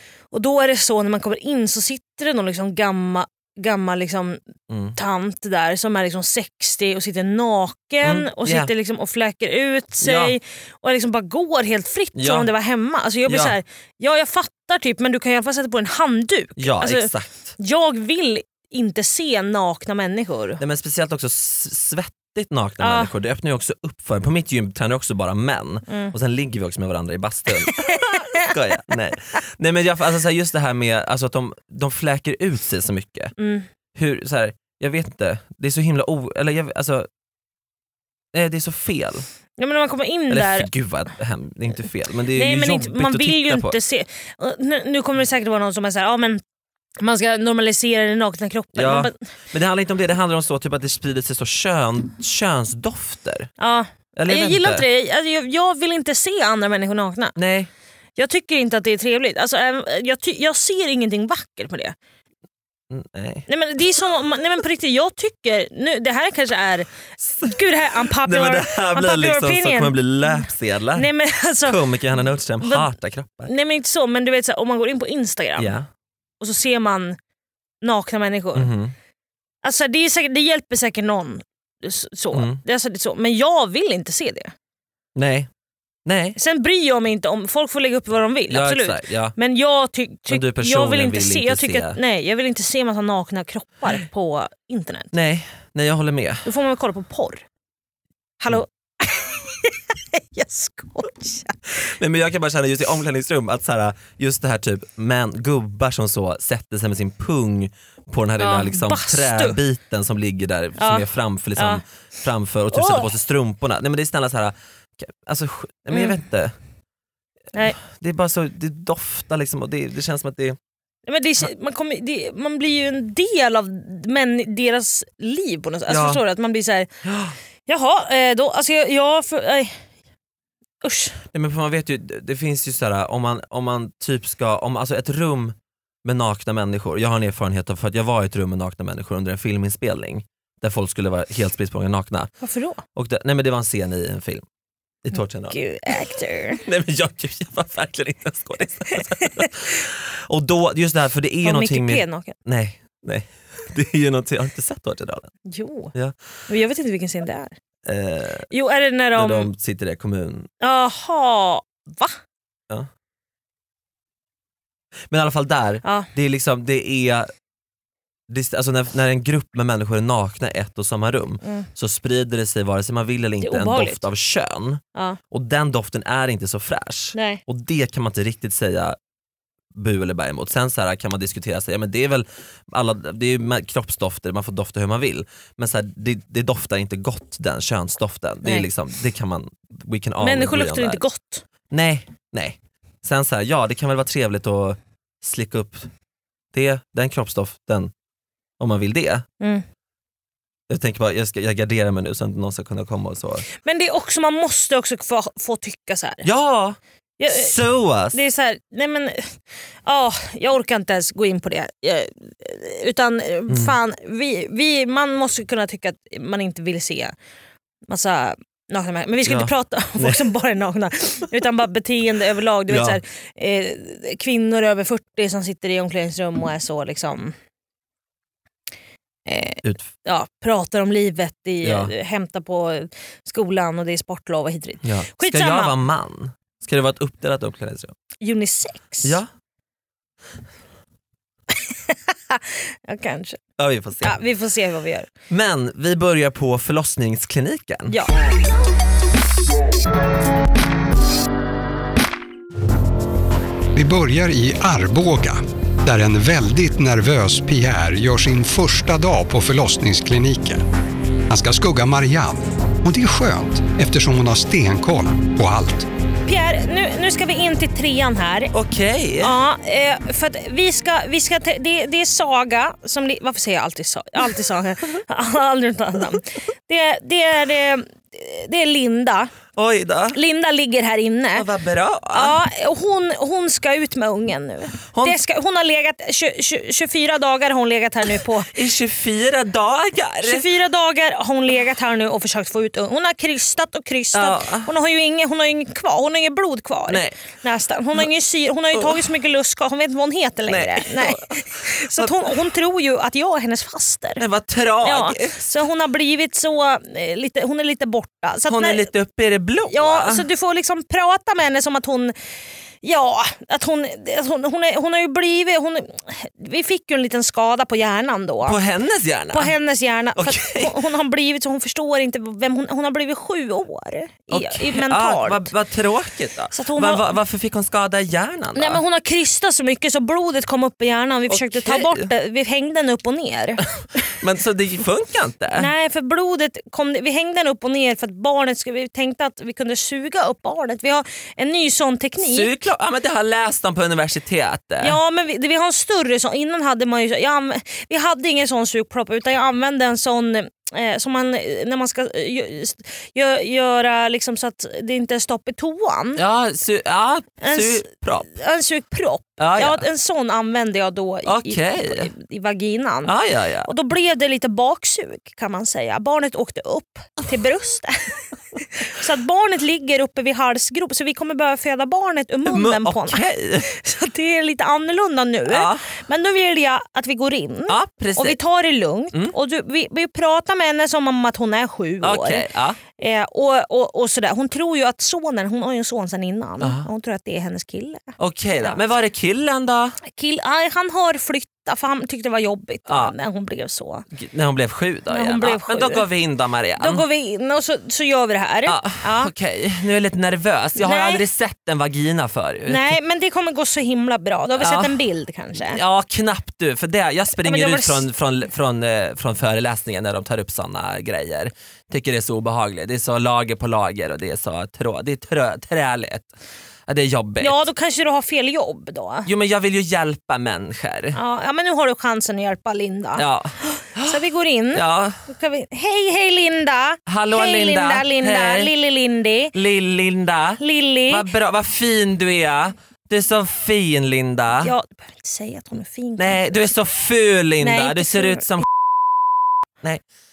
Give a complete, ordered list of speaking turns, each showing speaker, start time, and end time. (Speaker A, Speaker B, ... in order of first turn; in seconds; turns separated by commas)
Speaker A: 0.3-4.4, Speaker B: 4.7-5.0, Speaker A: 5.0-20.6, Speaker B: 8.0-8.7, Speaker B: 10.0-10.4, Speaker B: 12.2-12.5, Speaker B: 13.3-13.6, Speaker B: 16.6-17.6, Speaker B: 20.6-33.3, Speaker A: 22.8-23.1, Speaker A: 25.9-26.1, Speaker A: 27.6-28.5, Speaker A: 33.4-33.7, Speaker B: 34.0-37.1, Speaker B: 38.3-39.3, Speaker A: 39.6-40.7, Speaker B: 40.3-43.8, Speaker A: 42.4-46.4, Speaker A: 47.0-49.1, Speaker B: 48.8-53.5, Speaker A: 53.6-57.4, Speaker B: 54.2-54.9, Speaker B: 57.4-57.7, Speaker A: 58.2-62.0, Speaker B: 62.9-63.5, Speaker A: 63.5-66.9, Speaker B: 67.2-67.5, Speaker A: 67.4-71.8, Speaker B: 68.1-71.1, Speaker B: 71.7-73.5, Speaker A: 72.6-72.9, Speaker A: 73.5-75.7, Speaker B: 75.6-75.9, Speaker A: 76.4-77.2, Speaker A: 77.8-78.7, Speaker B: 78.5-78.9, Speaker A: 79.6-84.5, Speaker B: 82.3-82.6, Speaker B: 85.2-85.5, Speaker B: 86.1-86.4, Speaker A: 86.4-95.1, Speaker B: 88.5-89.3, Speaker B: 90.3-92.0, Speaker B: 95.1-96.5, Speaker A: 96.5-97.4, Speaker A: 98.4-101.6, Speaker B: 101.8-116.5, Speaker A: 108.4-109.6, Speaker A: 110.8-111.0, Speaker A: 111.6-111.8, Speaker A: 112.7-113.1, Speaker B: 117.8-120.6, Speaker A: 121.1-126.9, Speaker B: 125.9-126.2, Speaker B: 127.0-127.3, Speaker A: 127.7-129.7, Speaker A: 130.8-131.2, Speaker B: 131.3-142.3, Speaker A: 142.4-142.8, Speaker B: 142.9-144.4, Speaker B: 145.1-145.6, Speaker A: 145.5-146.6, Speaker B: 146.6-155.3, Speaker A: 149.2-149.5, Speaker A: 151.4-152.3, Speaker A: 155.5-155.9, Speaker A: 156.5-157.6, Speaker B: 157.9-158.5, Speaker A: 158.5-159.5, Speaker B: 159.2-160.5, Speaker A: 160.6-162.2, Speaker B: 165.1-167.3, Speaker B: 168.3-179.0, Speaker A: 173.4-174.0, Speaker A: 177.2-177.4, Speaker B: 179.8-191.0, Speaker A: 190.2-191.4, Speaker B: 191.7-195.9, Speaker B: 196.5-197.9, Speaker B: 198.6-199.2, Speaker B: 200.7-203.5, Speaker A: 203.6-206.3, Speaker B: 206.2-208.2, Speaker A: 207.2-207.6, Speaker A: 208.1-209.3, Speaker A: 209.9-217.1, Speaker B: 213.5-213.7, Speaker A: 217.9-227.3, Speaker B: 219.3-220.2, Speaker B: 222.7-223.0, Speaker A: 229.3-235.7, Speaker B: 229.6-229.9, Speaker B: 231.6-231.9, Speaker B: 234.8-237.9, Speaker A: 238.2-239.2, Speaker A: 241.7-243.4, Speaker B: 243.6-244.2, Speaker A: 244.0-245.1, Speaker B: 245.3-248.0, Speaker C: 253.8-260.6, Speaker C: 261.3-265.9, Speaker A: 266.3-268.5, Speaker B: 268.5-269.4, Speaker A: 269.2-279.3, Speaker B: 279.6-280.2, Speaker A: 280.1-281.4, Speaker B: 281.4-282.4, Speaker A: 282.1-288.5, Speaker B: 284.9-285.2, Speaker B: 288.5-290.4, Speaker A: 290.2-304.2, Speaker B: 294.1-294.7, Speaker B: 296.9-297.1, Speaker B: 300.5-301.4, Speaker B: 301.9-302.3, Speaker B: 304.2-305.4, Speaker A: 304.8-308.9, Speaker B: 308.5-310.2, Speaker A: 309.7-312.1, Speaker A: 312.8-318.6, Speaker B: 318.4-319.6, Speaker A: 319.3-325.5, Speaker B: 320.2-320.8, Speaker B: 324.3-328.8, Speaker A: 326.5-327.1, Speaker A: 328.6-333.7, Speaker B: 331.3-332.1, Speaker B: 334.0-335.7, Speaker A: 335.6-342.5, Speaker B: 342.2-345.0, Speaker A: 344.8-356.2, Speaker B: 356.2-358.3, Speaker A: 357.4-363.1, Speaker B: 359.4-359.8, Speaker B: 361.3-362.1, Speaker B: 363.1-363.7, Speaker A: 363.7-382.4, Speaker B: 372.5-373.7, Speaker B: 375.5-375.9, Speaker B: 377.7-378.4, Speaker B: 382.0-382.8, Speaker A: 383.0-388.0, Speaker B: 386.6-386.9, Speaker B: 388.2-390.0, Speaker A: 390.1-394.1, Speaker B: 392.9-393.1, Speaker B: 394.1-397.1, Speaker A: 395.1-396.1, Speaker A: 396.8-399.3, Speaker B: 398.7-403.0, Speaker A: 400.8-401.2, Speaker A: 402.7-405.8, Speaker B: 404.6-405.0, Speaker B: 405.7-416.3, Speaker A: 407.4-408.0, Speaker B: 416.9-417.6, Speaker A: 417.4-419.3, Speaker B: 419.3-421.2, Speaker A: 421.1-429.5, Speaker B: 423.2-424.2, Speaker B: 424.7-425.2, Speaker B: 427.1-428.7, Speaker B: 429.5-434.7, Speaker A: 430.6-431.2, Speaker A: 434.6-436.6, Speaker B: 436.2-438.7, Speaker A: 437.6-438.6